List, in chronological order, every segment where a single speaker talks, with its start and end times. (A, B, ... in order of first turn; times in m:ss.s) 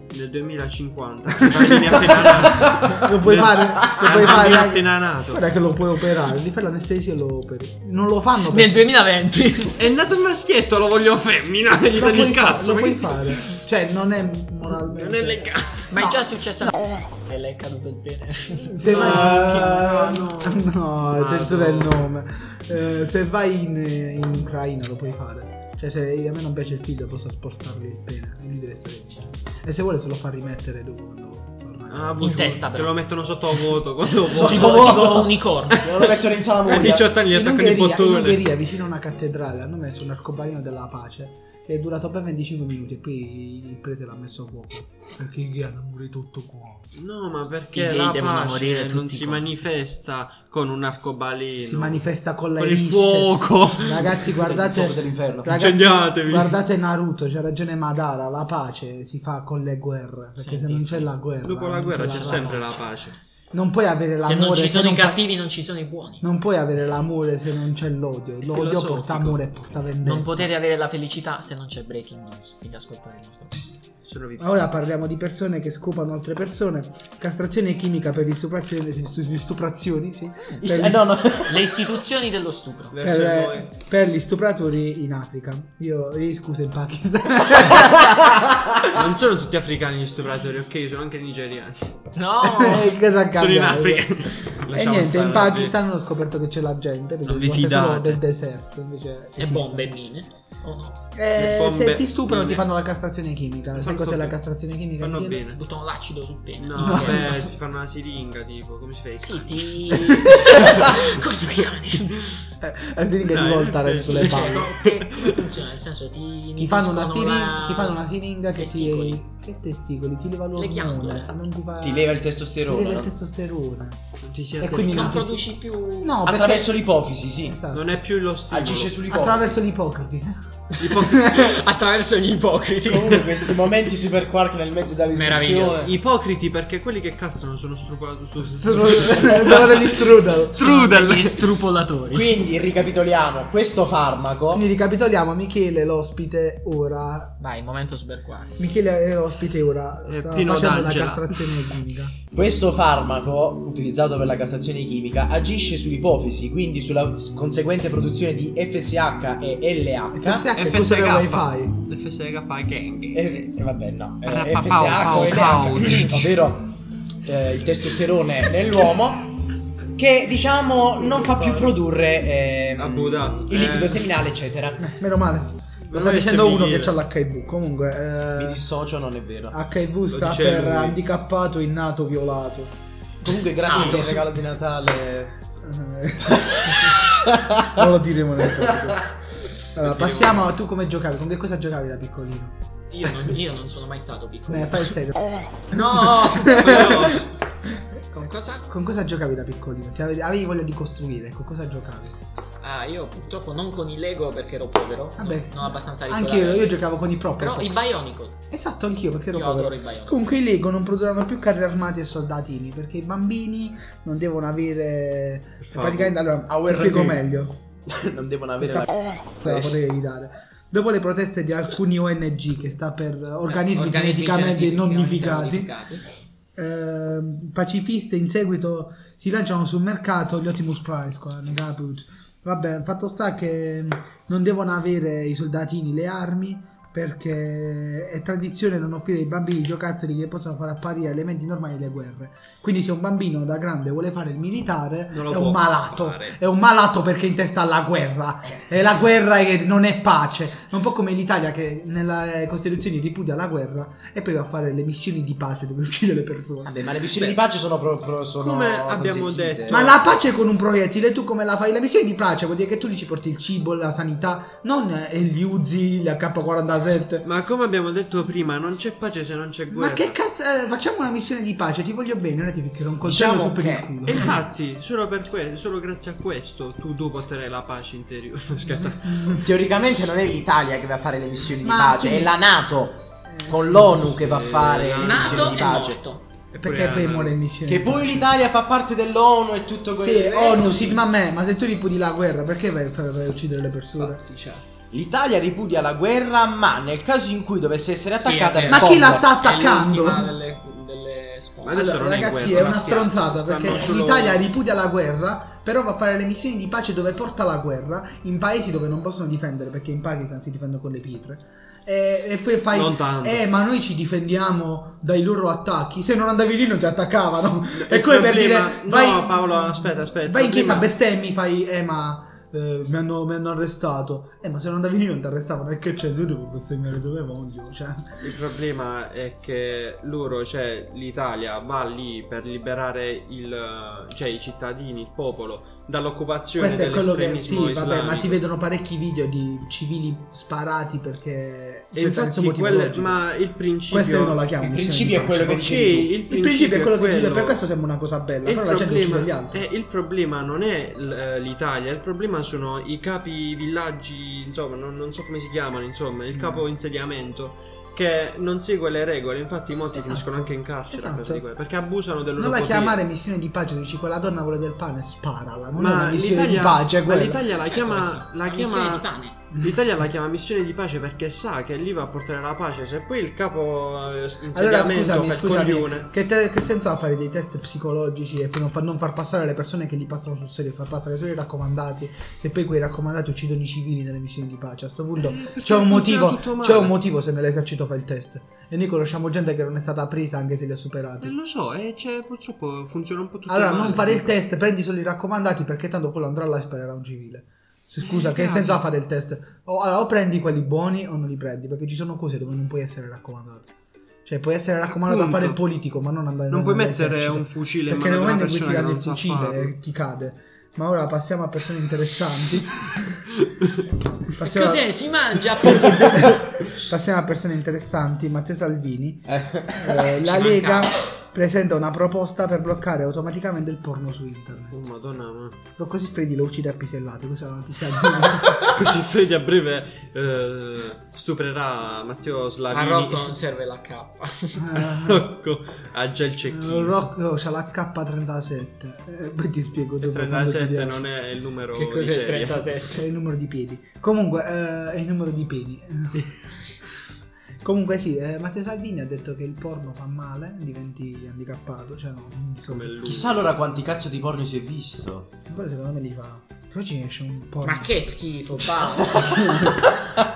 0:00.1-0:05.4 A
0:01.3-0:08.8 B
0:02.4-0:02.8 C
0:03.8-0:04.1 C
0:08.5-0:09.8 D
0:09.8-0:13.5 A
0:11.9-0:16.8 B
0:14.8-0:15.9 A
0:15.9-0:18.8 D
0:18.6-0:32.6 B
0:18.8-0:22.0 A
0:31.9-0:38.4 A
0:32.2-0:33.0 D
0:34.3-0:37.1 C
0:34.3-0:35.8 D
0:36.7-0:46.9 B
0:47.0-0:52.0 A
0:47.7-0:49.5 D
0:51.6-1:02.8 B
0:52.6-0:54.3 A
0:54.3-0:55.6 C
0:55.5-0:56.6 A
1:00.4-1:01.1 D
1:01.4-1:03.2 A
1:03.5-1:05.2 B
1:04.2-1:06.2 D
1:06.2-1:10.5 B
1:08.5-1:09.4 A
1:10.0-1:13.8 D
1:14.1-1:14.7 A
1:14.4-1:21.4 B
1:20.6-1:21.9 C
1:21.4-1:23.0 D
1:22.9-1:23.7 A
1:23.0-1:28.9 B
1:28.9-1:32.1 A
1:32.1-1:33.0 D
1:32.5-1:39.9 B
1:33.4-1:35.7 A
1:37.2-1:38.2 A
1:39.4-1:41.0 D
1:41.2-1:45.4 B
1:41.4-1:42.6 A
1:43.7-1:44.4 A
1:45.0-1:45.6 A
1:45.5-1:47.5 D
1:46.6-1:51.2 A
1:46.8-1:47.4 B
1:49.2-1:52.2 D
1:51.9-1:52.4 A
1:52.6-1:54.7 B
1:53.2-1:55.5 A
1:54.0-1:58.0 D
1:56.6-2:04.0 B
1:58.5-1:59.2 D
2:00.6-2:01.3 D
2:01.8-2:03.1 C
2:04.3-2:05.2 A
2:04.6-2:05.4 B
2:04.7-2:06.2 D
2:06.0-2:06.8 B
2:06.2-2:07.6 C
2:07.4-2:08.0 B
2:07.7-2:09.0 A
2:08.5-2:09.5 C
2:09.1-2:11.5 B
2:10.8-2:11.6 A
2:11.2-2:13.6 D
2:12.9-2:15.9 C
2:15.1-2:15.9 D
2:15.8-2:21.5 A
2:18.4-2:20.6 B
2:20.6-2:22.4 D
2:22.1-2:24.6 C
2:24.5-2:27.4 B
2:27.4-2:28.6 D
2:28.6-2:32.2 B
2:30.1-2:31.5 A
2:32.3-2:40.5 C
2:40.1-2:41.8 B
2:40.6-2:43.2 A
2:43.1-2:46.7 C
2:44.3-2:46.4 A
2:47.3-2:49.3 C
2:50.0-2:54.9 C
2:51.0-2:51.7 A
2:52.8-2:54.1 A
2:54.8-2:58.6 B
2:55.9-2:57.0 A
2:58.4-2:59.6 C
2:59.5-3:04.3 B
3:00.1-3:01.0 A
3:03.2-3:05.4 C
3:03.7-3:04.0 D
3:03.7-3:04.0 A
3:05.6-3:09.2 B
3:06.6-3:07.8 C
3:08.6-3:09.0 C
3:09.7-3:12.6 B
3:09.8-3:10.5 A
3:12.9-3:15.0 D
3:14.5-3:17.2 B
3:15.7-3:17.2 D
3:16.5-3:17.3 A
3:18.1-3:18.7 D
3:18.7-3:22.2 B
3:22.6-3:28.4 D
3:25.2-3:27.9 B
3:28.5-3:37.6 B
3:29.3-3:30.2 D
3:35.6-3:36.2 A
3:36.5-3:37.2 C
3:37.9-3:39.8 C
3:38.6-3:45.7 B
3:43.5-3:46.0 D
3:46.6-4:16.9 B
4:05.1-4:06.4 A
4:16.6-4:19.9 C
4:18.4-4:20.0 A
4:19.7-4:27.3 B
4:27.2-4:30.2 A
4:29.7-4:34.4 B
4:33.0-4:33.9 C
4:34.1-4:39.4 A
4:38.7-4:39.5 B
4:39.4-4:46.0 C
4:41.6-4:42.4 B
4:43.3-4:44.2 B
4:44.0-4:46.0 A
4:45.0-4:46.2 D
4:46.5-4:47.4 A
4:46.6-4:48.3 B
4:47.7-4:51.0 C
4:49.9-4:54.2 B
4:54.0-4:54.5 A
4:54.9-4:59.3 C
4:58.2-5:02.1 D
4:58.7-5:00.4 B
5:01.6-5:04.4 A
5:01.7-5:28.3 B
5:12.7-5:13.4 A
5:17.7-5:20.9 A
5:28.2-5:38.4 A
5:36.6-5:43.2 B
5:41.9-5:44.5 A
5:43.9-5:45.8 B
5:44.6-5:46.1 C
5:45.5-5:47.6 A
5:46.3-5:49.7 B
5:48.4-6:03.0 A
5:56.3-5:56.6 B
5:59.9-6:01.4 B
6:02.4-6:07.5 B
6:05.8-6:16.1 A
6:07.7-6:09.4 D
6:14.5-6:31.3 B
6:25.2-6:27.0 A
6:31.2-6:34.4 A
6:33.5-6:43.7 B
6:38.0-6:38.8 A
6:44.2-6:53.3 B
6:44.9-6:45.6 A
6:46.5-6:49.7 A
6:54.3-7:04.8 B
6:54.4-6:56.4 D
6:59.3-7:00.0 C
7:00.2-7:01.0 D
7:04.7-7:05.6 A
7:05.8-7:08.9 B
7:08.6-7:13.4 A
7:12.7-7:14.7 D
7:14.6-7:15.3 B
7:14.8-7:17.0 A
7:16.5-7:21.0 B
7:20.0-7:22.7 A
7:21.7-7:23.1 D
7:22.9-7:27.0 B
7:27.6-7:33.0 B
7:32.6-7:33.5 A
7:33.0-7:35.3 C
7:35.5-7:38.0 B
7:37.6-7:39.7 D
7:38.6-7:40.0 B